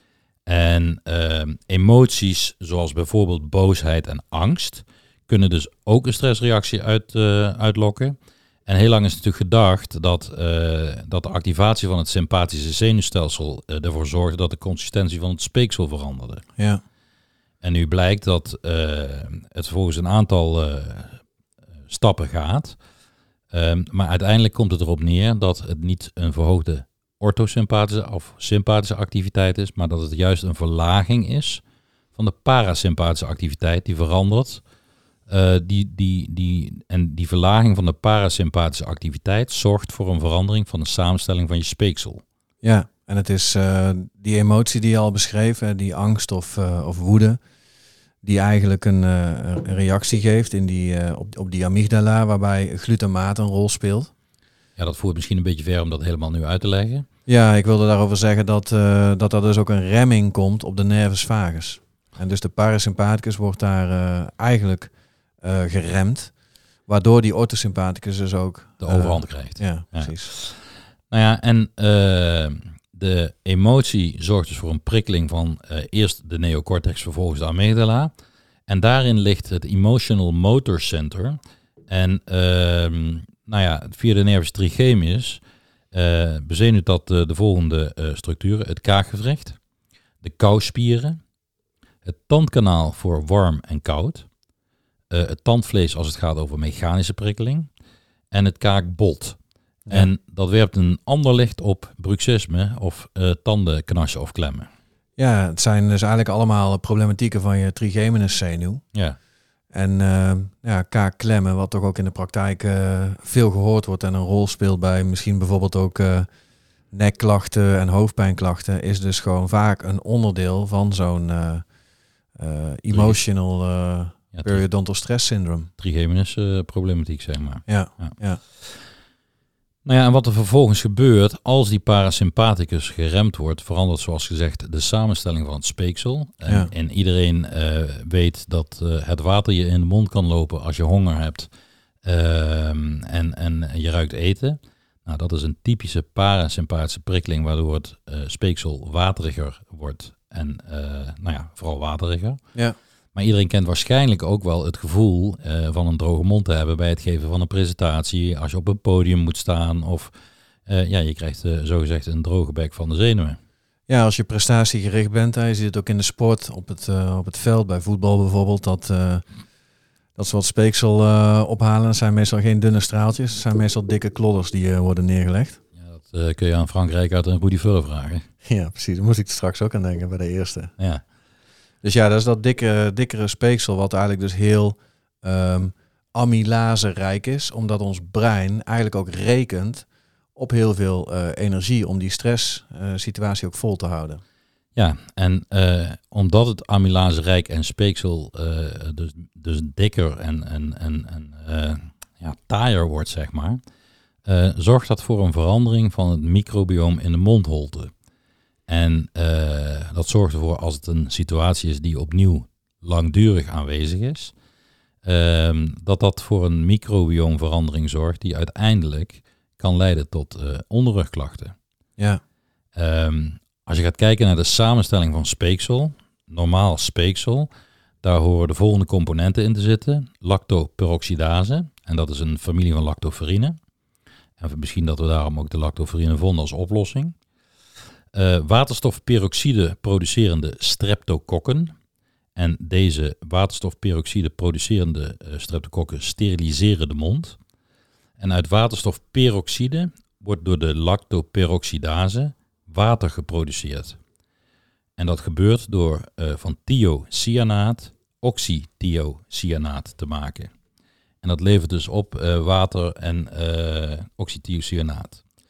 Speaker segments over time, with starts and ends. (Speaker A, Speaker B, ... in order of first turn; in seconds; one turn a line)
Speaker A: 0.5-16.4
Speaker A: 17.6-21.2
Speaker A: 21.9-22.8
Speaker A: 23.5-31.6
Speaker A: 32.2-34.6
Speaker A: 35.3-42.2
Speaker B: 42.6-47.4
Speaker B: 48.2-54.1
Speaker A: 54.8-57.1
Speaker B: 57.3-66.3
Speaker B: 66.9-70.3
Speaker A: 68.8-78.1
Speaker A: 78.7-85.4
Speaker A: 85.9-89.6
Speaker A: 90.2-91.2
Speaker A: 92.0-94.3
Speaker A: 95.1-97.7
Speaker A: 98.3-99.4
Speaker A: 99.9-104.7
Speaker B: 105.2-108.8
Speaker B: 109.7-116.3
Speaker B: 116.9-121.6
Speaker B: 122.3-125.7
Speaker A: 122.9-123.2
Speaker A: 124.3-124.6
Speaker A: 125.8-128.8
Speaker B: 127.7-128.4
Speaker A: 129.8-141.5
Speaker A: 142.0-152.4
Speaker A: 153.2-160.1
Speaker A: 160.7-163.4
Speaker B: 163.9-169.3
Speaker B: 170.2-175.6
Speaker A: 175.8-178.3
Speaker B: 178.4-180.7
Speaker A: 180.8-181.0
Speaker B: 181.8-194.2
Speaker A: 194.8-203.6
Speaker A: 204.3-207.9
Speaker A: 208.7-214.3
Speaker A: 215.0-221.6
Speaker A: 222.8-227.5
Speaker A: 228.0-233.6
Speaker A: 234.4-237.2
Speaker A: 238.1-241.7
Speaker A: 242.4-247.4
Speaker A: 248.2-254.0
Speaker A: 255.0-260.5
Speaker A: 261.2-265.2